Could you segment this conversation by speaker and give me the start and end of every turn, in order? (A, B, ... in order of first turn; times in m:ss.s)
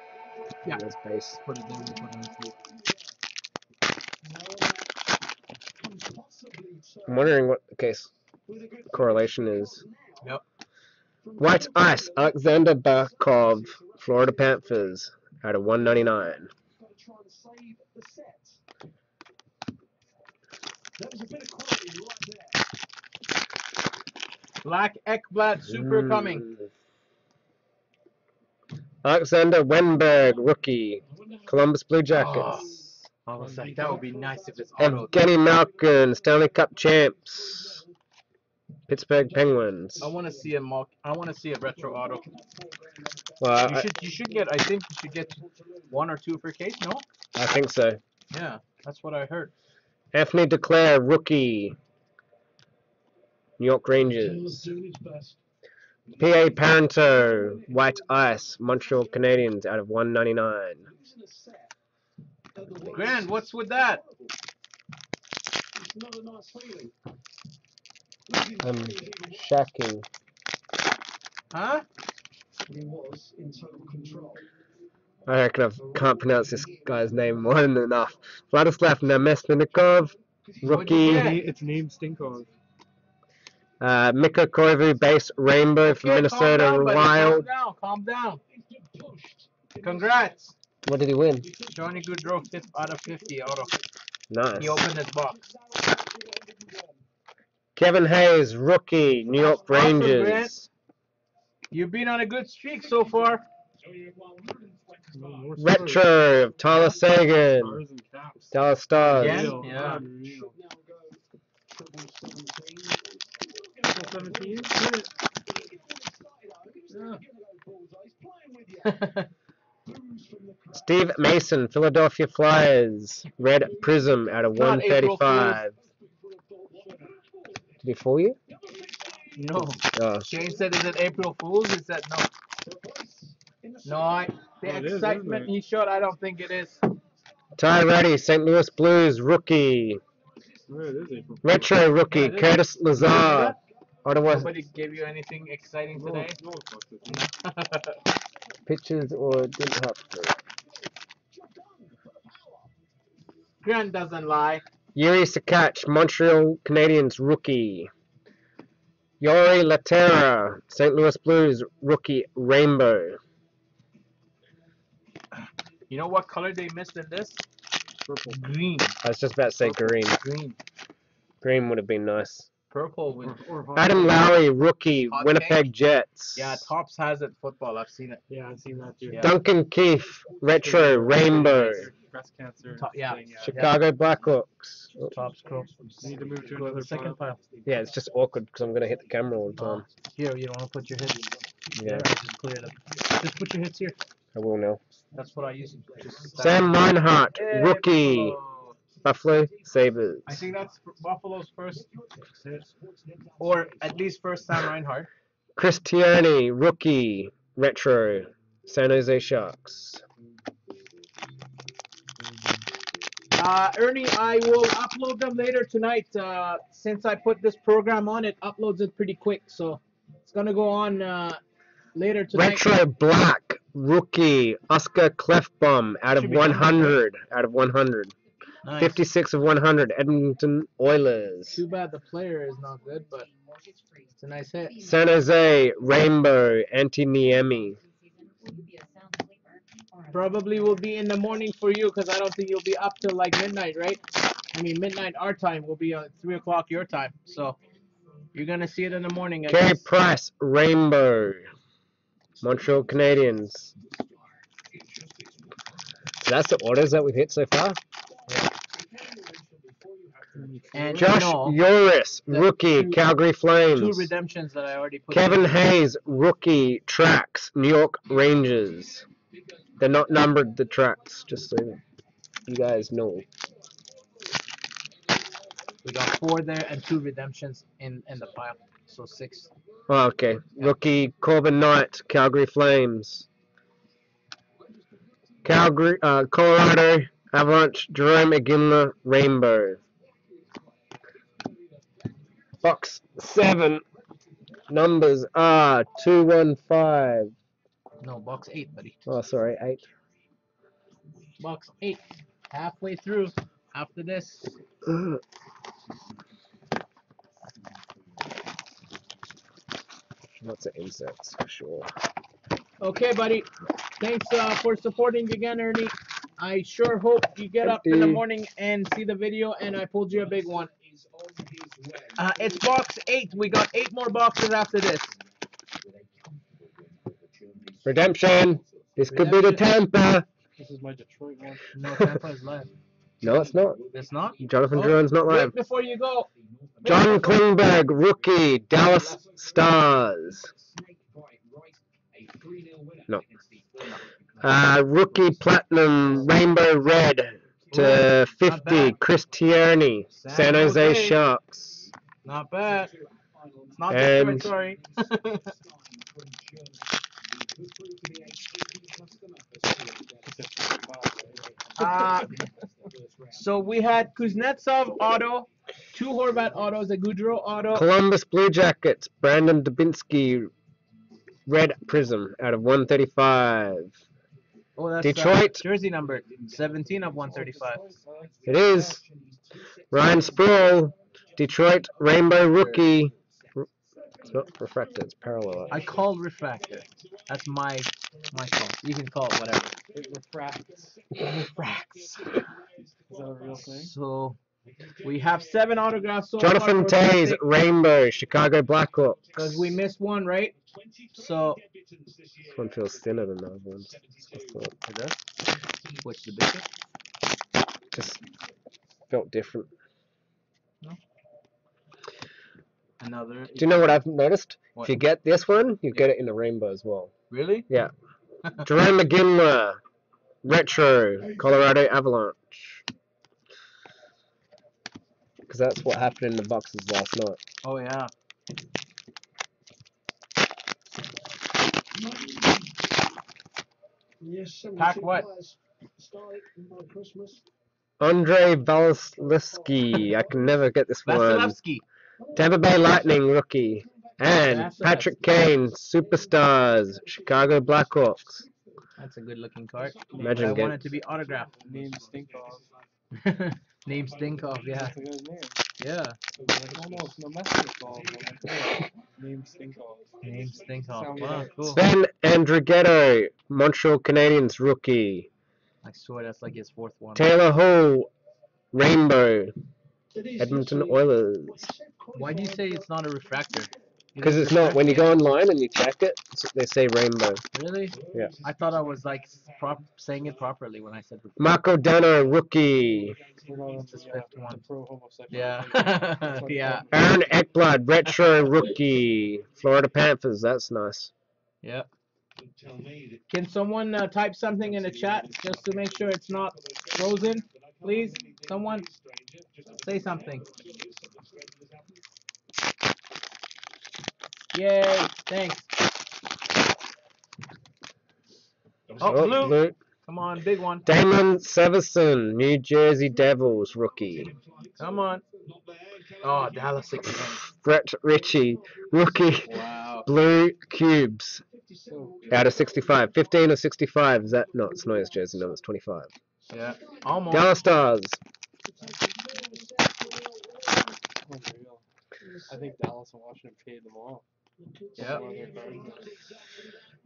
0:00.7-0:01.4 A
0:01.4-0:02.6 B
0:07.0-0:08.1 A
0:08.9-0:09.8 A
0:11.4-0:16.5 A
0:24.6-0:26.4 B
0:25.7-0:26.7 A
0:29.0-0:32.7 A
0:32.1-0:35.1 B
0:33.4-0:34.0 C
0:34.8-0:37.8 A
0:38.9-0:40.1 A
0:40.0-0:42.3 B
0:43.4-0:43.9 A
0:43.6-0:47.0 B
0:47.3-0:48.0 A
0:48.3-0:49.5 B
0:50.1-0:51.8 A
0:53.6-0:54.8 A
0:56.2-1:00.9 A
1:02.8-1:04.0 B
1:08.6-1:10.0 A
1:11.5-1:11.8 B
1:15.2-1:21.4 A
1:20.6-1:21.4 B
1:21.0-1:22.5 C
1:23.8-1:27.4 A
1:25.8-1:28.4 B
1:29.8-1:30.5 B
1:30.8-1:31.5 A
1:31.7-1:33.7 B
1:34.3-1:34.8 A
1:34.6-1:35.5 B
1:37.7-1:40.7 A
1:39.7-1:40.5 B
1:41.7-1:43.4 B
1:45.1-1:46.1 C
1:45.6-1:47.8 A
1:47.5-1:50.6 C
1:48.5-1:49.5 A
1:49.1-1:50.0 B
1:53.9-1:55.1 C
1:56.9-1:57.2 C
1:58.8-1:59.3 B
2:00.7-2:05.8 A
2:04.5-2:05.6 B
2:07.8-2:08.4 A
2:09.3-2:12.3 B
2:09.9-2:10.3 A
2:13.8-2:16.8 B
2:14.6-2:15.5 C
2:17.6-2:20.0 A
2:20.7-2:21.7 C
2:21.4-2:24.5 A
2:22.1-2:23.6 B
2:24.3-2:26.4 B
2:25.9-2:27.3 C
2:27.2-2:28.0 B
2:28.6-2:30.4 A
2:33.6-2:34.6 B
2:34.9-2:37.9 A
2:39.2-2:43.2 A
2:45.9-2:47.4 B
2:48.0-2:48.6 C
2:48.3-2:49.0 B
2:49.0-2:50.2 A
2:49.6-2:50.6 B
2:51.4-2:52.5 A
2:52.7-2:53.4 B
2:53.2-2:54.4 C
2:53.8-2:56.7 A
2:55.1-2:55.6 B
2:56.4-2:58.2 B
2:58.3-2:59.3 C
2:59.1-2:59.3 B
2:59.2-3:01.9 A
3:00.6-3:03.6 C
3:02.8-3:03.8 B
3:03.4-3:05.1 A
3:05.1-3:05.7 B
3:06.0-3:07.2 C
3:06.2-3:07.4 B
3:07.6-3:09.8 A
3:09.6-3:14.0 B
3:11.8-3:12.1 A
3:14.3-3:14.8 A
3:15.1-3:16.8 B
3:16.4-3:18.4 A
3:17.3-3:18.7 B
3:19.0-3:20.4 A
3:20.2-3:21.9 B
3:22.4-3:22.7 B
3:23.4-3:25.1 B
3:25.6-3:30.0 A
3:33.3-3:41.4 B
3:41.9-3:42.6 B
3:42.3-3:48.1 A
3:46.2-3:47.0 B
3:48.6-3:49.0 B
3:48.8-3:51.6 A
3:51.5-3:53.3 B
3:54.2-3:54.7 B
3:54.8-3:57.8 A
4:00.1-4:04.0 B
4:04.5-4:07.6 B
4:08.3-4:09.8 B
4:09.4-4:11.5 A
4:12.4-4:13.7 A
4:16.2-4:17.8 A
4:20.3-4:21.2 C
4:20.7-4:21.6 B
4:20.9-4:24.1 A
4:22.3-4:23.0 B
4:23.7-4:25.6 B
4:25.1-4:29.0 A
4:29.8-4:31.8 A
4:32.5-4:33.2 A
4:35.8-4:39.5 B
4:39.9-4:43.3 A
4:45.4-4:49.8 A
4:52.6-4:53.8 A
4:54.7-4:57.3 A
4:58.0-4:59.0 B
4:59.0-4:59.8 A
5:01.4-5:04.6 B
5:04.8-5:05.2 A
5:10.4-5:11.9 A
5:12.8-5:13.5 B
5:14.0-5:20.7 B
5:17.6-5:18.2 A
5:22.2-5:25.1 B
5:27.8-5:30.2 A
5:29.1-5:29.6 B
5:30.6-5:31.7 C
5:31.7-5:32.7 B
5:33.2-5:33.8 A
5:33.9-5:36.3 B
5:34.4-5:35.5 A
5:36.8-5:37.4 B
5:36.8-5:40.5 A
5:44.4-5:51.9 A
5:47.7-5:49.0 B
5:50.2-5:51.2 B
5:52.2-5:52.9 B
5:53.8-5:55.5 B
5:53.9-5:54.5 A
6:00.2-6:01.6 C
6:01.8-6:02.3 B
6:03.3-6:07.8 B
6:07.7-6:10.5 A
6:11.4-6:14.0 A
6:14.8-6:17.9 B
6:15.0-6:15.6 A
6:18.0-6:19.0 C
6:18.4-6:19.0 A
6:19.9-6:23.7 A
6:22.4-6:22.8 B
6:24.3-6:25.8 A
6:25.7-6:29.7 B
6:29.9-6:30.9 C
6:31.2-6:32.4 B
6:33.1-6:33.9 C
6:33.6-6:34.4 B
6:35.0-6:37.4 B
6:36.4-6:39.6 A
6:39.4-6:40.5 B
6:41.1-6:41.6 B
6:42.5-6:44.7 A
6:44.8-6:45.2 B
6:46.0-6:46.6 B
6:47.9-6:48.2 A
6:49.1-6:49.7 A
6:53.0-6:53.9 B
6:53.6-6:57.1 A
6:57.3-6:57.7 B
6:58.6-6:59.8 A
7:00.4-7:02.8 A
7:05.5-7:07.4 A
7:07.6-7:08.1 B
7:14.8-7:15.3 B
7:18.0-7:21.5 A
7:21.0-7:21.8 B
7:22.3-7:28.4 A
7:24.3-7:25.2 B
7:29.0-7:31.5 B
7:30.2-7:30.8 A
7:31.6-7:32.7 C
7:33.1-7:34.9 B
7:34.7-7:35.6 C
7:35.8-7:36.2 B
7:36.5-7:40.1 C
7:40.2-7:41.8 B
7:40.9-7:41.8 C
7:41.6-7:45.3 A
7:45.8-7:47.2 B
7:47.2-7:48.1 A
7:48.7-7:49.5 A
7:50.4-7:51.7 A
7:52.1-7:55.1 B
7:54.2-7:57.4 A
7:57.5-8:01.4 B
8:01.4-8:03.2 A
8:03.4-8:06.9 C
8:03.9-8:04.6 B
8:05.3-8:06.8 B
8:06.9-8:11.1 A
8:11.6-8:11.9 B
8:13.3-8:18.9 B
8:19.8-8:20.5 B
8:24.5-8:25.7 B
8:29.0-8:30.9 B
8:29.0-8:29.8 A
8:30.8-8:34.3 A
8:34.8-8:35.2 B
8:36.2-8:37.4 B
8:37.6-8:39.5 A
8:39.5-8:40.1 B
8:40.0-8:41.4 A
8:41.9-8:42.6 C
8:42.3-8:46.1 A
8:46.5-8:47.5 B
8:47.3-8:48.2 A
8:51.2-8:51.8 C
8:52.5-8:54.2 C
8:55.0-8:55.2 B
8:55.0-8:56.3 C